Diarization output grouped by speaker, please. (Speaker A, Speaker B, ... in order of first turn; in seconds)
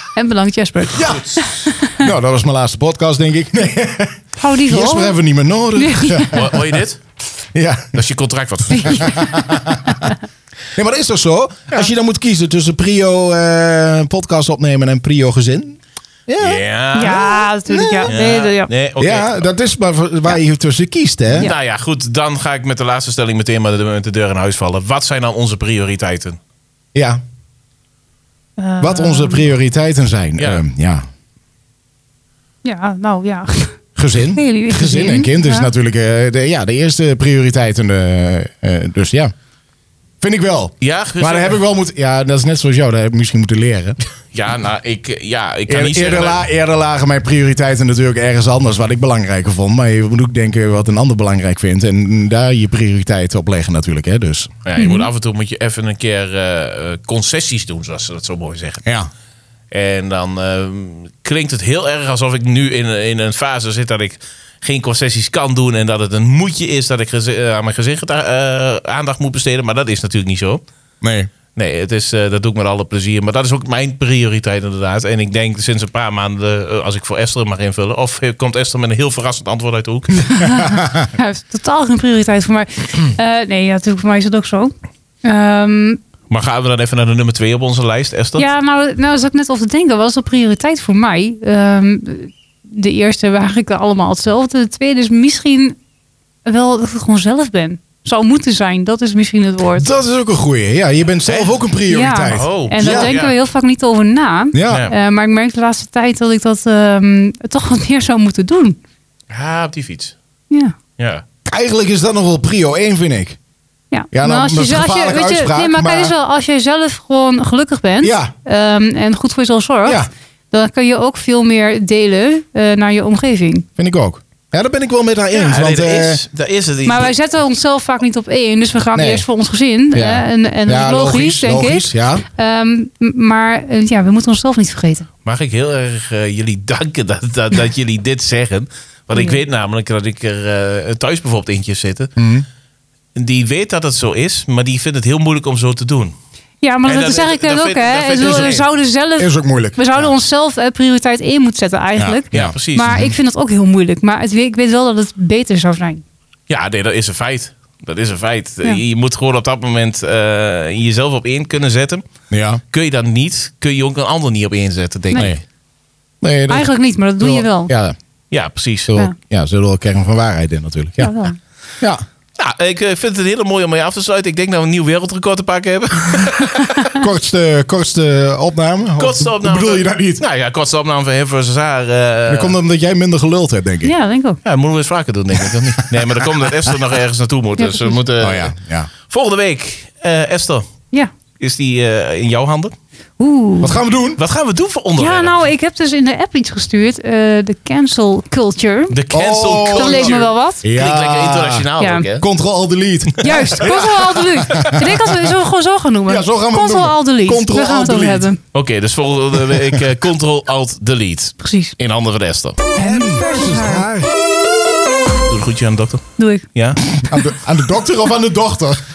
Speaker A: 0.1-2.0, 4.4-5.2, 5.8-6.4, 8.7-10.2, 16.9-18.7, 28.6-29.5, 32.6-33.8, 34.3-35.7, 54.8-55.1, 80.3-86.0, 88.4-95.8, 96.4-99.9, 101.9-108.8, 110.5-110.7, 113.9-123.7, 126.8-135.1, 139.1-139.4, 146.6-156.0, 166.5-167.7, 171.0-171.4, 183.8-184.4, 187.6-188.0, 193.2-193.8, 195.0-198.9, 199.7-200.6, 201.8-202.0, 203.2-208.4, 211.4-211.7, 212.7-213.9, 216.2-216.4
Speaker B: 0.9-1.4, 6.3-7.0, 7.9-9.2, 16.4-17.4, 18.1-19.4, 21.3-26.4, 30.4-30.6, 40.8-41.6, 44.3-46.4, 54.6-58.9, 59.7-70.6, 71.5-80.3, 86.3-88.5, 101.2-101.5, 102.3-103.3, 104.7-104.9, 109.3-110.1, 111.0-111.2, 125.3-127.1, 135.2-142.1, 143.1-146.1, 146.8-148.6, 152.3-153.0, 156.5-162.0, 162.7-165.4, 168.3-168.9, 172.4-176.9, 179.0-182.5, 184.4-188.5, 189.1-190.7, 191.4-192.7, 194.2-195.4, 198.9-202.2, 203.5-203.9, 204.4-204.8, 208.5-212.6, 215.2-216.8
Speaker C: 0.9-6.8, 7.5-8.0, 8.8-10.1, 10.7-17.1, 17.7-18.1, 19.0-21.5, 26.9-27.2, 28.8-31.0, 34.0-39.3, 40.2-44.0, 45.7-54.5, 71.0-71.3, 80.7-81.0, 99.8-103.2, 104.5-104.9, 111.5-113.4, 114.1-116.1, 118.0-118.3, 123.8-126.2, 128.9-129.2, 129.9-132.2, 142.2-142.4, 148.2-148.5, 149.2-150.1, 152.0-153.1, 162.3-162.6, 165.1-165.4, 166.2-166.7, 167.2-167.9, 168.9-171.2, 176.9-180.2, 182.3-183.9, 185.3-186.7, 188.2-188.9, 193.6-194.2, 199.1-201.7, 202.2-205.3, 206.1-208.3, 212.8-214.1, 216.9-218.8